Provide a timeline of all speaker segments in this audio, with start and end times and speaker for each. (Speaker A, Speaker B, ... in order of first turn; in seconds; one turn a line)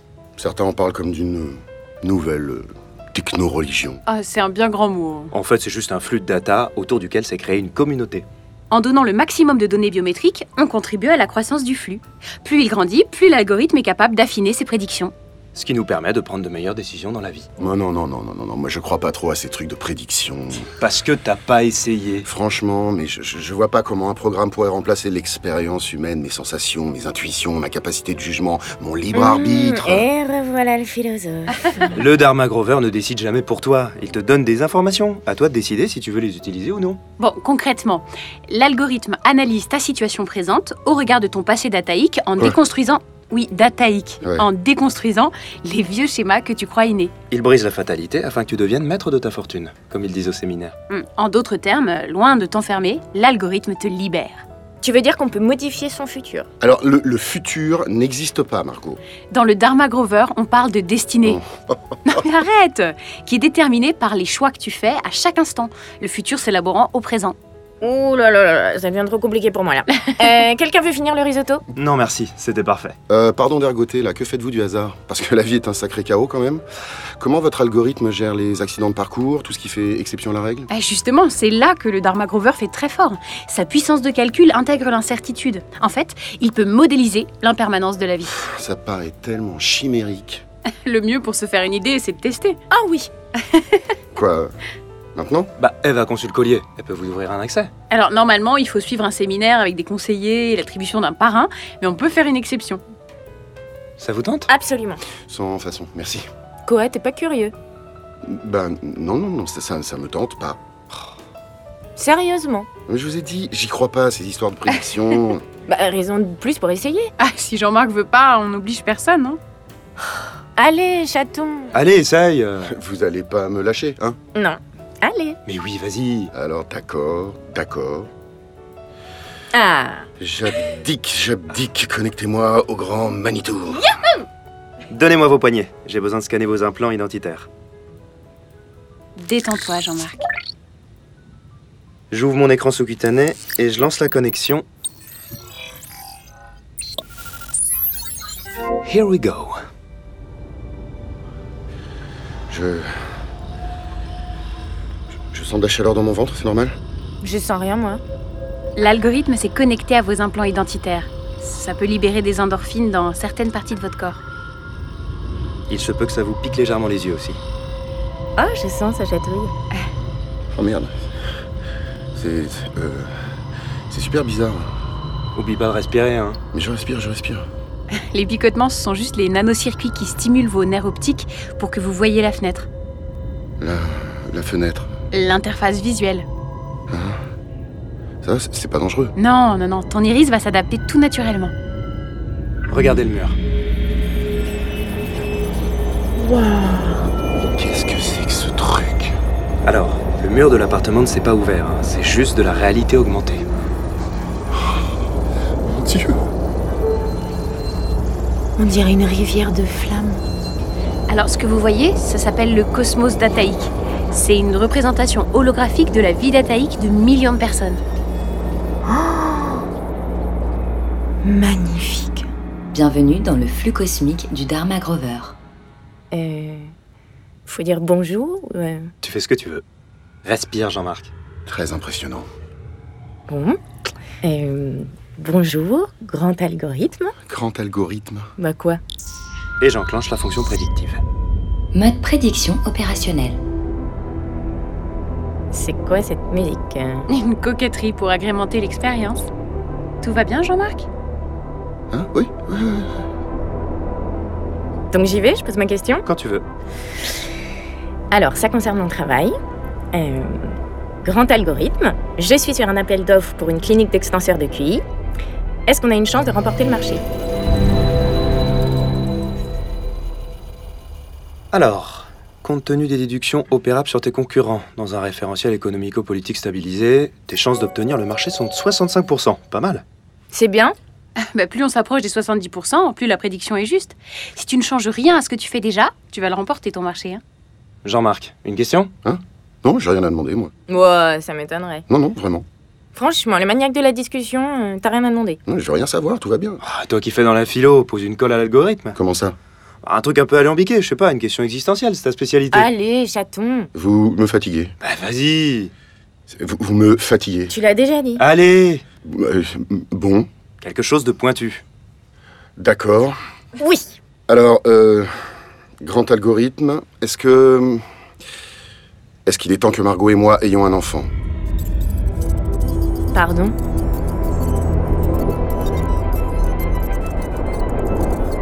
Speaker A: 0.4-4.0
Speaker B: 4.1-5.3
Speaker C: 5.3-8.2
Speaker B: 8.7-15.1
Speaker C: 15.5-17.5
Speaker A: 17.6-20.7
Speaker C: 20.6-22.3
Speaker A: 22.2-30.1
Speaker D: 29.1-31.9
Speaker B: 31.5-31.8
Speaker C: 31.9-37.0
Speaker B: 37.2-47.1
Speaker A: 44.2-44.5
Speaker C: 47.3-50.8
Speaker B: 50.9-54.4
Speaker D: 54.8-56.5
Speaker A: 56.6-59.0
Speaker B: 59.3-61.4
Speaker A: 61.2-62.1
Speaker B: 62.1-67.3
Speaker D: 67.8-71.6
Speaker C: 71.8-73.0
Speaker A: 73.1-76.6
Speaker A: 77.2-80.7
Speaker B: 80.7-88.4
Speaker A: 88.3-90.4
Speaker B: 90.7-92.6
Speaker D: 92.7-93.1
Speaker B: 93.4-93.9
Speaker A: 94.1-94.5
Speaker A: 95.2-95.5
Speaker C: 95.6-97.7
Speaker B: 97.9-102.8
Speaker C: 104.0-104.5
Speaker D: 104.5-105.0
Speaker A: 105.3-106.2
Speaker D: 106.7-107.5
Speaker A: 108.2-110.6
Speaker D: 112.0-112.7
Speaker A: 112.9-115.4
Speaker D: 115.7-117.1
Speaker B: 117.2-119.4
Speaker D: 120.6-121.7
Speaker C: 121.7-122.8
Speaker A: 122.7-124.2
Speaker D: 124.3-125.4
Speaker C: 125.5-126.3
Speaker A: 126.3-128.1
Speaker D: 129.5-130.1
Speaker A: 130.2-134.0
Speaker C: 134.9-137.5
Speaker B: 139.2-140.2
Speaker C: 142.1-144.7
Speaker C: 148.8-149.5
Speaker A: 152.5-152.9
Speaker A: 155.3-156.8
Speaker D: 157.2-158.0
Speaker B: 158.8-164.2
Speaker C: 165.7-167.4
Speaker D: 168.4-169.5
Speaker A: 170.5-170.9
Speaker A: 172.1-173.1
Speaker A: 173.9-174.7
Speaker C: 175.3-176.4
Speaker A: 176.5-177.4
Speaker B: 177.9-182.7
Speaker A: 183.6-184.9
Speaker B: 185.1-186.3
Speaker A: 186.9-187.2
Speaker A: 188.2-189.1
Speaker B: 189.2-191.5
Speaker C: 192.7-193.4
Speaker D: 196.2-197.1
Speaker A: 197.5-199.2
Speaker C: 199.6-203.4
Speaker A: 205.7-206.2
Speaker D: 208.6-210.2
Speaker B: 211.1-217.8
Speaker D: 218.9-219.6
Speaker D: 221.2-222.2
Speaker E: 222.7-225.3
Speaker D: 226.1-226.7
Speaker D: 227.4-228.9
Speaker C: 229.0-229.6
Speaker C: 230.2-231.1
Speaker A: 231.5-232.3
Speaker D: 233.3-233.6
Speaker D: 234.2-237.1
Speaker A: 237.3-238.3
Speaker D: 238.4-238.8
Speaker C: 239.6-241.0
Speaker E: 241.7-243.4
Speaker D: 245.5-247.1
Speaker B: 247.1-249.3
Speaker B: 250.0-250.9
Speaker A: 251.9-252.9
Speaker D: 254.9-256.1
Speaker C: 256.1-256.4
Speaker D: 258.1-259.3
Speaker D: 259.9-264.8
Speaker D: 265.6-267.0
Speaker C: 271.5-279.8
Speaker D: 280.3-280.8
Speaker B: 281.2-287.2
Speaker C: 287.8-288.9
Speaker A: 289.1-290.5
Speaker D: 290.7-291.9
Speaker A: 291.9-292.4
Speaker D: 292.9-295.4
Speaker A: 295.5-296.6
Speaker C: 296.6-299.0
Speaker A: 298.9-299.4
Speaker C: 299.8-302.7
Speaker D: 302.5-303.7
Speaker A: 303.7-304.7
Speaker C: 304.8-305.7
Speaker A: 306.3-307.5
Speaker D: 307.5-308.2
Speaker C: 308.2-308.8
Speaker A: 309.1-310.3
Speaker C: 310.6-311.6
Speaker A: 312.6-313.1
Speaker D: 313.6-313.9
Speaker A: 314.3-315.1
Speaker A: 315.8-317.8
Speaker A: 319.2-321.1
Speaker D: 323.1-323.6